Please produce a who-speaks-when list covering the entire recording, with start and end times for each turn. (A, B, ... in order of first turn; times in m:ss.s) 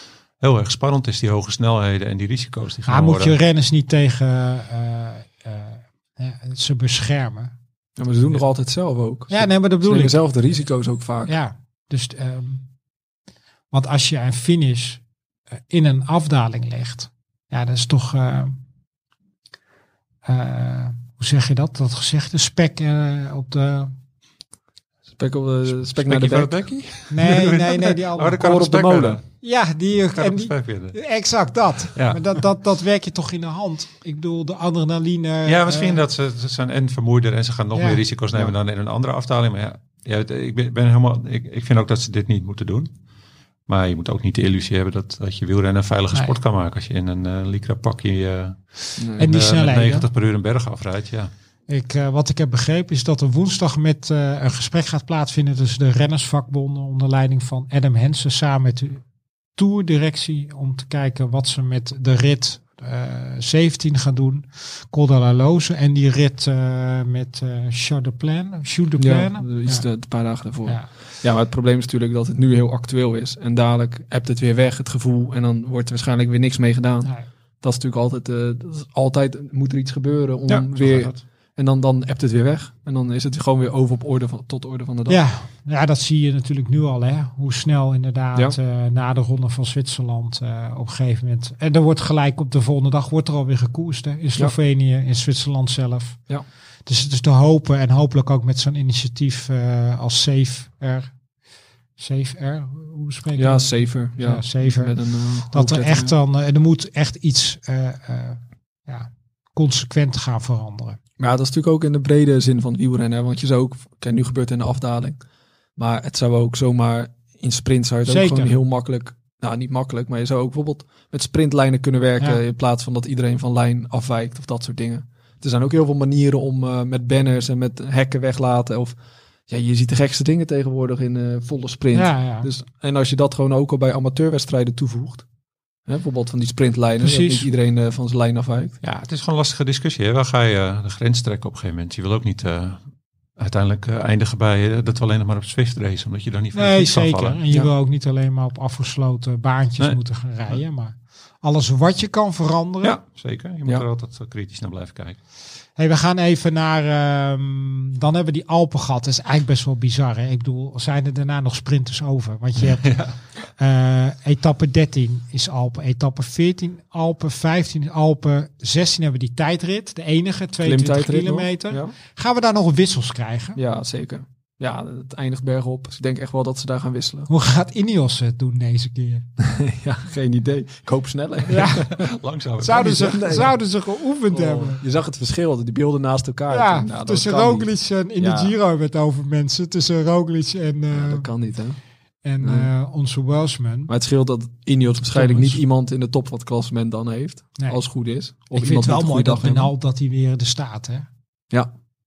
0:00.4-0:03.4 A
0:02.9-0:07.5 B
0:08.0-0:11.3 C
0:09.3-0:10.2 B
0:11.2-0:12.6 B
0:13.7-0:15.0 B
0:15.7-0:18.5 B
0:20.2-0:23.9 B
0:25.2-0:26.5 C
0:25.8-0:29.2 A
0:27.1-0:28.5 B
0:28.4-0:29.2 C
0:29.4-0:36.0 B
0:30.1-0:31.0 A
0:31.9-0:32.4 A
0:35.4-0:42.9 A
0:37.7-0:38.0 B
0:43.7-0:51.3 A
0:49.0-0:49.3 C
0:49.2-0:50.0 B
0:51.7-0:59.0 B
0:59.6-1:09.8 B
1:09.0-1:17.1 C
1:17.6-1:25.2 C
1:20.5-1:21.2 A
1:25.1-1:36.2 B
1:36.8-1:41.1 B
1:42.0-1:45.0 B
1:43.4-1:46.1 C
1:45.5-1:51.0 B
1:51.2-1:55.2 C
1:55.8-2:09.0 C
1:58.0-1:58.5 B
2:09.5-2:15.2 C
2:11.9-2:12.5 B
2:15.9-2:18.8 C
2:17.0-2:17.5 B
2:18.8-2:22.8 A
2:23.4-2:27.4 A
2:26.5-2:33.0 B
2:32.8-2:35.2 A
2:35.8-2:43.0 B
2:42.7-2:43.2 A
2:43.6-2:53.6 B
2:50.6-2:51.9 C
2:53.6-2:57.3 C
2:57.3-2:59.2 B
2:59.4-3:02.0 C
3:01.5-3:01.9 B
3:01.7-3:03.2 A
3:02.6-3:04.8 B
3:02.8-3:03.5 C
3:04.3-3:08.5 C
3:06.5-3:11.3 B
3:10.9-3:11.8 C
3:12.2-3:13.9 B
3:12.4-3:12.7 C
3:13.9-3:19.7 C
3:15.1-3:15.6 B
3:18.5-3:21.1 B